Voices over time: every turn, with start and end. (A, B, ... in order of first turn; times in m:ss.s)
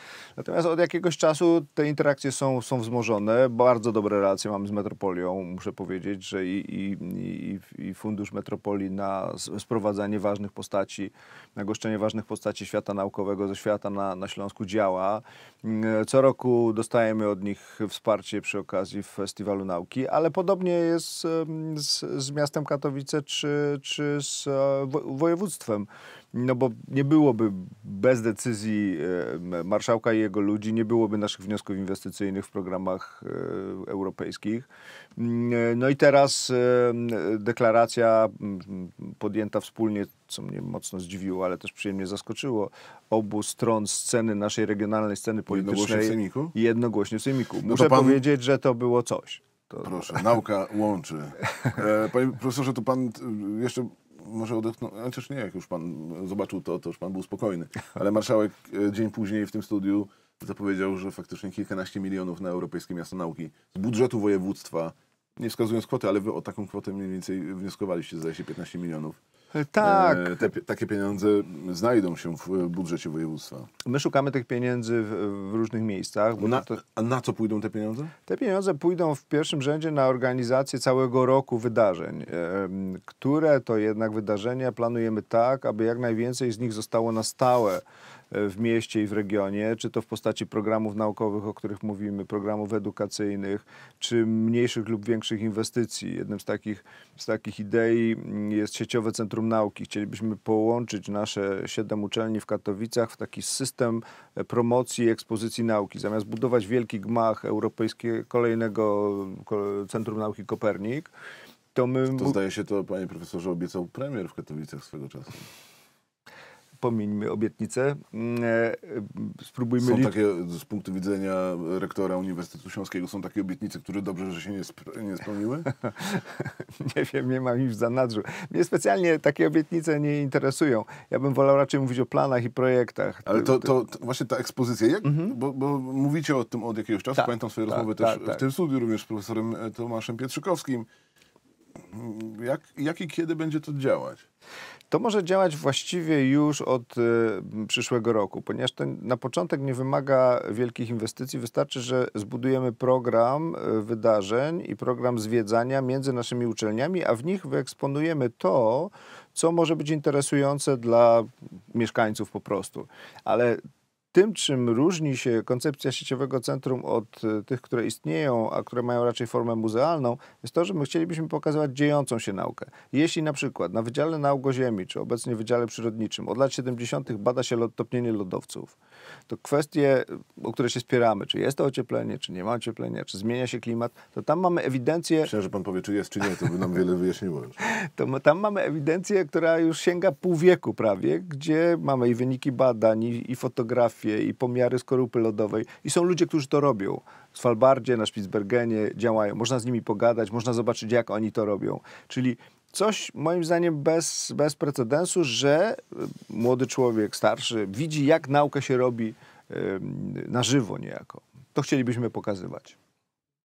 0:00.4-0:50.2 A
0:45.5-0:46.5 B
0:47.6-0:48.2 B
0:49.8-1:09.2 B
1:09.5-1:10.5 A
1:09.8-1:13.7 B
1:13.8-1:16.8 A
1:16.4-1:18.1 B
1:18.2-1:51.1 A
1:51.7-1:52.4 A
1:52.1-1:55.5 B
1:56.8-2:00.1 A
1:59.8-2:05.7 B
2:05.8-2:13.7 A
2:13.2-2:20.9 B
2:17.2-2:18.4 A
2:21.8-2:24.2 B
2:24.9-2:43.6 A
2:44.1-2:58.8 A
2:59.3-3:05.3 A
3:05.2-3:07.6 B
3:07.6-3:32.8 A